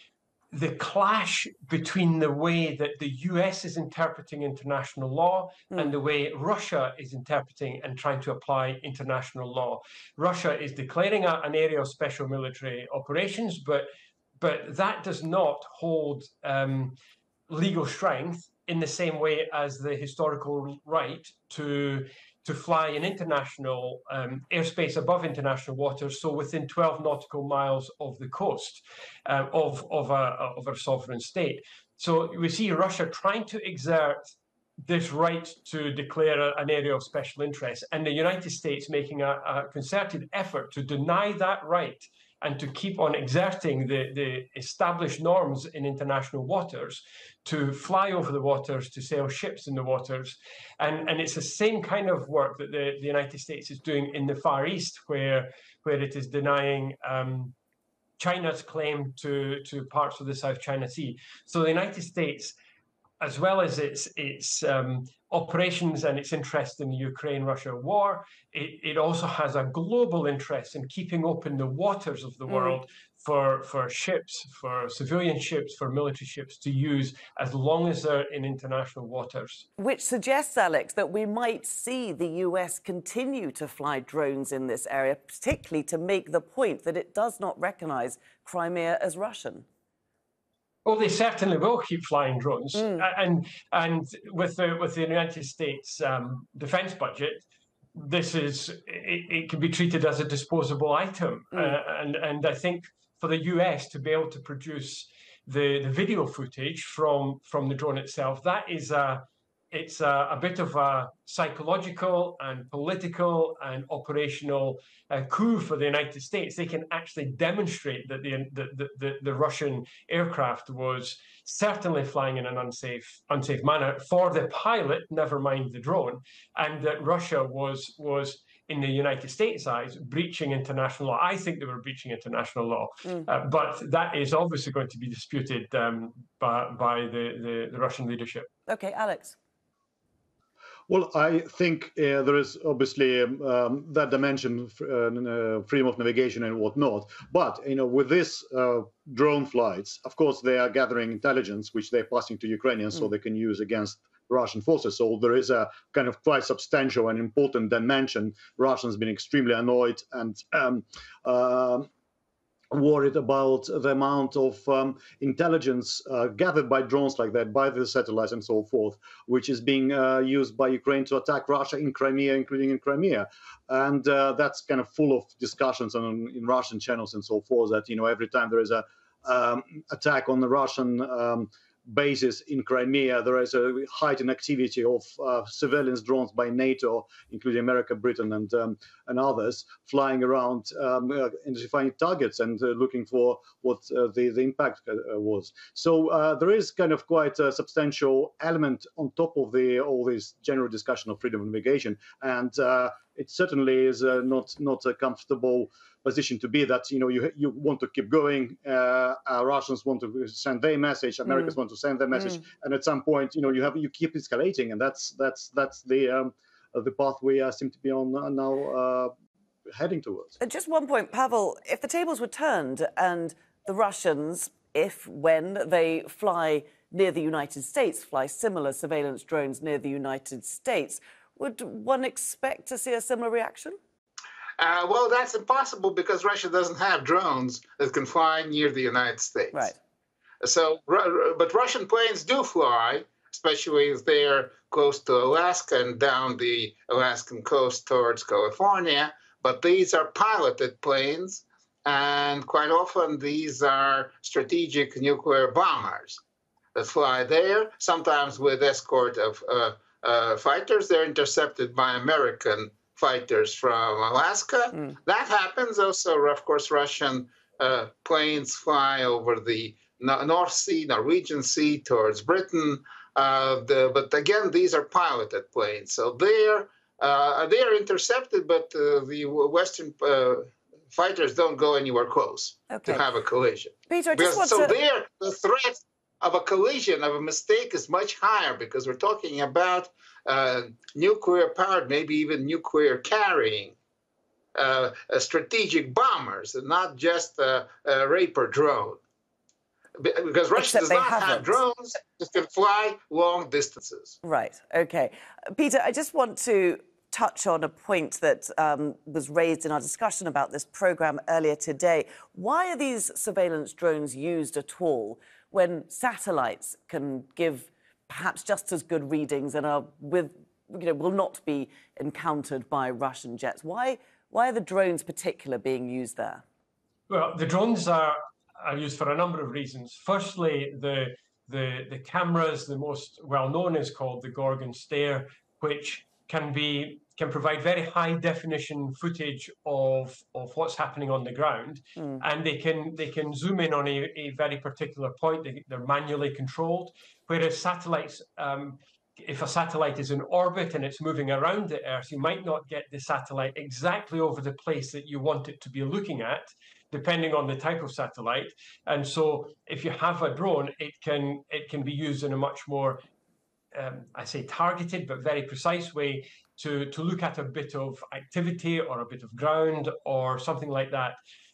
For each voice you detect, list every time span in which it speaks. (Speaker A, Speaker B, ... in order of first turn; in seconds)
Speaker A: 0.5-17.0, 17.5-34.3, 34.8-57.5, 58.2-62.5, 63.2-79.7, 90.8-97.4, 97.9-138.5, 327.1-363.0, 363.7-371.2
Speaker B: 72.5-72.8, 79.8-89.7, 92.7-93.1, 138.7-139.3, 220.4-233.8, 282.7-283.0, 283.9-284.7, 300.6-301.6, 304.2-326.4, 341.9-342.2
Speaker C: 140.9-161.9, 162.7-219.1, 219.7-220.3
Speaker D: 234.6-239.7, 240.4-256.2, 256.7-293.8, 294.5-299.0, 300.0-304.2